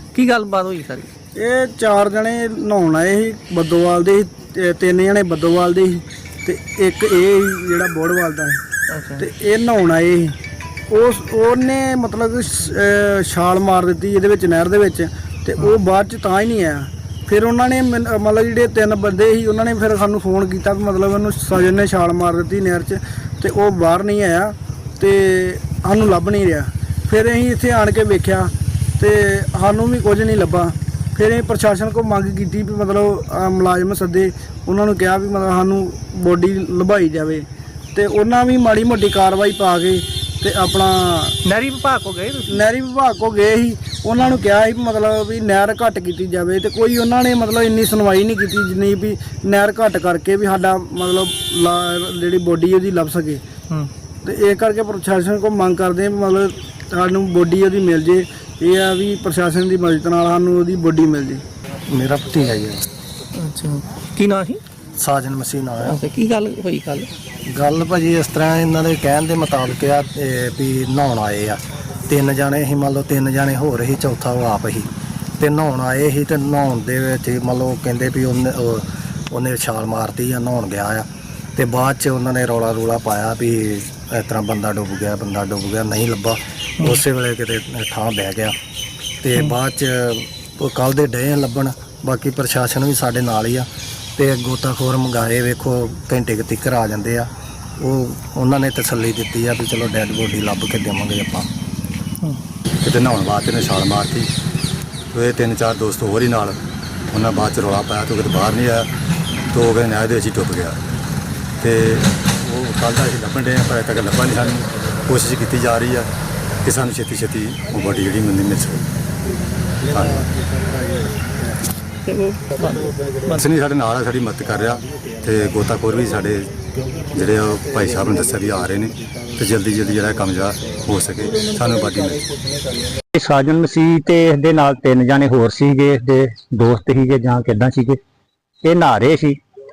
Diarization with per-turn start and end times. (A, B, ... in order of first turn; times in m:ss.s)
0:00.1-0:01.1 A
0:01.4-0:08.6 B
0:08.9-0:09.3 A
0:09.2-0:10.4 B
0:10.9-0:41.4 B
0:41.4-0:42.6 A
0:42.5-0:53.4 B
0:54.2-1:01.4 B
1:01.9-1:02.8 C
1:03.4-1:04.6 A
1:05.0-1:06.0 C
1:05.8-1:07.1 A
1:07.5-1:28.6 C
1:29.2-1:41.5 C
1:42.8-1:44.3 D
1:45.1-1:46.6 D
1:47.1-1:48.9 D
1:49.5-1:50.8 D
1:51.6-1:56.1 D
1:56.6-1:58.8 D
1:59.9-2:00.3 D
2:02.1-2:03.4 A
2:03.3-2:06.5 D
2:07.1-2:12.2 D
2:13.2-2:18.0 E
2:18.6-2:19.4 E